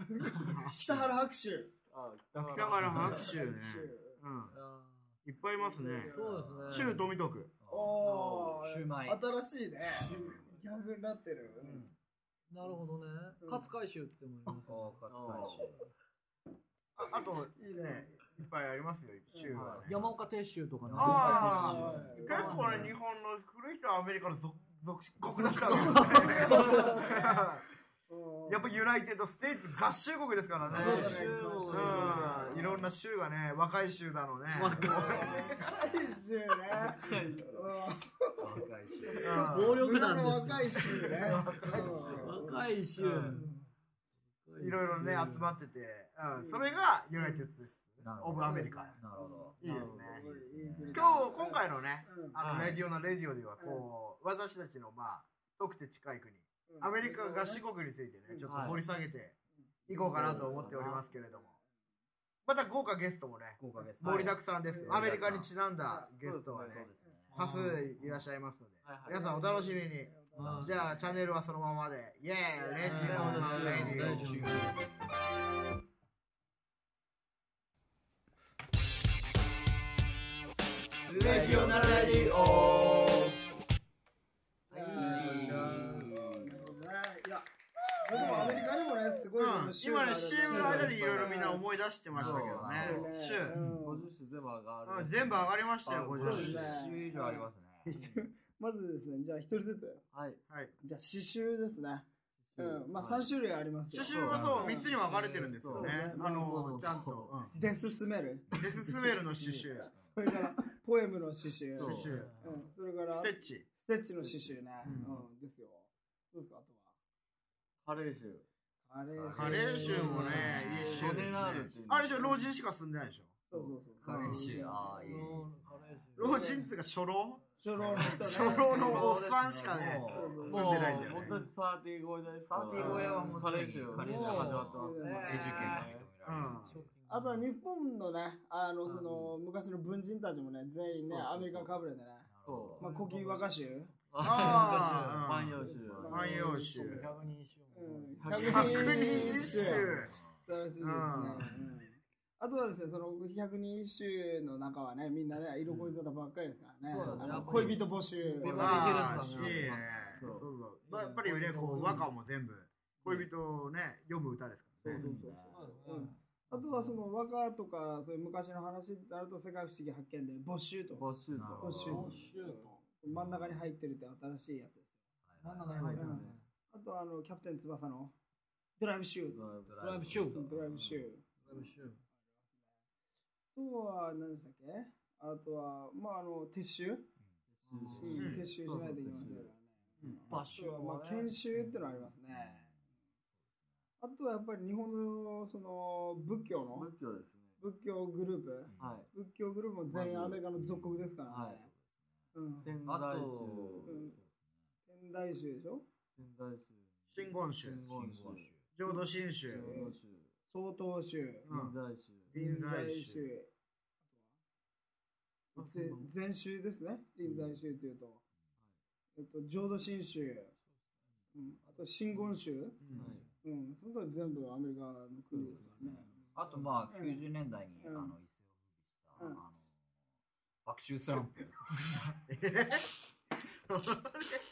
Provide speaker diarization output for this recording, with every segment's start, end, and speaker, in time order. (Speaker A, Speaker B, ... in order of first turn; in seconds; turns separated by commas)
Speaker A: 0.1-1.7, Speaker B: 0.5-1.1, Speaker C: 1.9-3.2, Speaker B: 2.3-4.6, Speaker D: 2.8-3.1, Speaker A: 3.0-4.2, Speaker E: 4.5-5.0, Speaker B: 5.2-6.1, Speaker A: 5.6-6.1, Speaker C: 6.1-7.0, Speaker E: 6.2-6.7, Speaker D: 6.2-7.0, Speaker B: 6.7-7.6, Speaker D: 7.6-9.2, Speaker A: 7.7-11.9, Speaker C: 9.8-10.6, Speaker B: 11.6-11.9, Speaker E: 12.5-15.4, Speaker A: 13.4-13.7, Speaker D: 14.7-15.8, Speaker C: 15.1-15.8, Speaker A: 17.0-18.3, Speaker B: 17.0-20.1, Speaker A: 19.3-19.7, Speaker C: 19.5-19.9, Speaker E: 19.9-22.9, Speaker D: 19.9-20.1, Speaker D: 20.8-22.2, Speaker B: 20.9-27.6, Speaker A: 21.4-22.9, Speaker E: 25.5-27.0, Speaker D: 25.6-26.7, Speaker A: 26.2-27.4, Speaker C: 26.6-27.0, Speaker A: 28.1-28.9, Speaker B: 28.5-35.7, Speaker D: 30.6-31.3, Speaker E: 30.7-32.4, Speaker C: 30.7-32.8, Speaker A: 30.7-32.8, Speaker E: 34.5-35.5, Speaker A: 34.9-43.6, Speaker C: 36.8-37.7, Speaker D: 38.4-39.8, Speaker B: 39.2-39.8, Speaker E: 39.4-41.1, Speaker B: 41.2-42.3, Speaker C: 41.5-42.6, Speaker E: 42.2-43.5, Speaker E: 44.5-45.5, Speaker B: 44.6-49.0, Speaker C: 44.9-45.3, Speaker A: 46.4-47.5, Speaker D: 48.0-49.6, Speaker A: 48.4-52.6, Speaker B: 49.6-50.2, Speaker C: 49.6-50.3, Speaker D: 50.2-51.2, Speaker B: 50.9-59.4, Speaker C: 52.4-52.8, Speaker A: 53.6-53.9, Speaker A: 56.7-57.6, Speaker A: 58.3-58.6, Speaker C: 58.5-58.8, Speaker A: 59.6-61.6, Speaker B: 59.9-61.5, Speaker C: 59.9-61.0, Speaker B: 62.5-74.3, Speaker D: 63.6-65.5, Speaker A: 64.7-65.2, Speaker C: 66.2-66.9, Speaker D: 66.7-67.4, Speaker A: 67.0-67.5, Speaker E: 67.3-67.7, Speaker C: 68.8-69.2, Speaker A: 69.0-71.2, Speaker E: 70.3-70.8, Speaker D: 70.4-70.8, Speaker A: 72.5-73.8, Speaker E: 72.8-74.8, Speaker C: 73.0-74.4, Speaker D: 73.3-75.1, Speaker B: 81.1-83.4, Speaker A: 81.1-82.7, Speaker C: 81.2-82.5, Speaker C: 84.7-86.8, Speaker A: 84.7-91.6, Speaker D: 84.9-86.2, Speaker B: 85.4-86.1, Speaker C: 88.1-88.7, Speaker B: 89.4-93.6, Speaker C: 90.5-91.5, Speaker D: 92.1-93.1, Speaker C: 92.1-95.6, Speaker A: 92.8-94.1, Speaker B: 94.9-96.8, Speaker D: 95.8-98.1, Speaker A: 96.2-100.0, Speaker C: 96.2-96.8, Speaker C: 100.1-100.4, Speaker B: 100.5-100.7, Speaker A: 100.8-104.9, Speaker C: 102.4-103.3, Speaker B: 103.9-107.5, Speaker C: 104.1-107.4, Speaker A: 105.7-106.6, Speaker A: 107.5-116.8, Speaker B: 108.5-109.9, Speaker C: 111.8-112.3, Speaker B: 111.8-112.4, Speaker B: 113.1-113.7, Speaker C: 114.2-115.2, Speaker C: 117.8-118.5, Speaker A: 118.9-121.2, Speaker D: 119.1-119.7, Speaker B: 119.3-123.4, Speaker C: 119.3-122.4, Speaker E: 119.7-120.8, Speaker D: 120.3-121.8, Speaker A: 123.5-125.3, Speaker C: 123.5-126.7, Speaker D: 124.0-126.1, Speaker B: 126.2-131.4, Speaker A: 127.6-129.1, Speaker D: 127.7-130.6, Speaker A: 130.1-131.4, Speaker C: 130.4-136.1, Speaker D: 132.5-136.9, Speaker A: 132.8-133.4, Speaker E: 133.9-135.9, Speaker A: 134.7-135.6, Speaker B: 136.2-136.8, Speaker E: 136.7-137.4, Speaker A: 137.1-142.3, Speaker C: 138.9-139.3, Speaker C: 141.1-141.7, Speaker D: 142.3-142.8, Speaker C: 142.4-143.4, Speaker A: 142.8-143.9, Speaker E: 142.8-143.4, Speaker C: 144.1-146.5, Speaker B: 144.2-147.1, Speaker E: 144.4-145.2, Speaker A: 144.4-144.8, Speaker A: 145.6-147.1, Speaker E: 146.8-148.4, Speaker A: 147.7-149.9, Speaker C: 148.2-149.9, Speaker B: 148.3-150.1, Speaker D: 149.6-150.4, Speaker A: 150.4-158.8, Speaker B: 150.8-151.5, Speaker E: 156.9-159.8, Speaker C: 156.9-157.8, Speaker D: 157.3-157.8, Speaker C: 158.4-162.1, Speaker B: 158.5-165.0, Speaker D: 158.9-160.3, Speaker E: 160.9-162.1, Speaker A: 164.8-171.1, Speaker C: 164.8-165.8, Speaker D: 164.9-165.8, Speaker E: 165.4-166.1, Speaker C: 170.9-172.2, Speaker D: 171.3-172.1, Speaker A: 171.6-174.9, Speaker E: 171.9-172.8, Speaker D: 173.1-173.6, Speaker D: 175.3-176.0, Speaker E: 175.4-176.4, Speaker C: 175.7-176.4, Speaker A: 176.0-178.1, Speaker A: 178.8-179.4, Speaker C: 179.3-179.9, Speaker D: 179.7-180.6, Speaker E: 179.8-180.5, Speaker A: 180.3-181.7, Speaker C: 180.7-181.0, Speaker E: 181.4-182.0, Speaker A: 183.6-187.1, Speaker C: 187.5-189.5, Speaker E: 187.7-188.3, Speaker D: 187.9-188.3, Speaker A: 188.0-192.7, Speaker B: 188.2-188.4, Speaker E: 190.1-191.3, Speaker D: 192.3-192.8, Speaker A: 194.0-196.9, Speaker C: 196.7-197.6, Speaker A: 197.6-201.7, Speaker D: 198.7-199.0, Speaker C: 198.8-199.1, Speaker C: 199.9-200.4, Speaker D: 200.6-201.1, Speaker C: 201.2-201.7, Speaker A: 202.3-202.7, Speaker C: 202.6-204.1, Speaker D: 202.8-204.3, Speaker A: 203.8-204.2, Speaker A: 204.9-205.8, Speaker C: 206.2-208.5, Speaker B: 207.1-207.9, Speaker D: 207.9-208.7, Speaker B: 208.7-209.7, Speaker C: 209.5-210.3, Speaker A: 209.6-210.0, Speaker A: 210.5-211.5, Speaker B: 211.5-211.8, Speaker C: 211.5-212.3, Speaker B: 212.3-213.3, Speaker A: 212.3-213.5, Speaker A: 215.6-218.2, Speaker C: 215.6-216.1, Speaker C: 217.2-217.6, Speaker A: 219.2-220.5, Speaker A: 221.3-222.8, Speaker B: 222.8-223.2, Speaker C: 222.9-223.3, Speaker A: 223.4-226.2, Speaker C: 225.3-226.1, Speaker D: 226.3-229.6, Speaker A: 226.9-227.2, Speaker A: 227.8-228.1, Speaker D: 230.6-232.1, Speaker B: 232.3-232.9, Speaker B: 233.7-234.4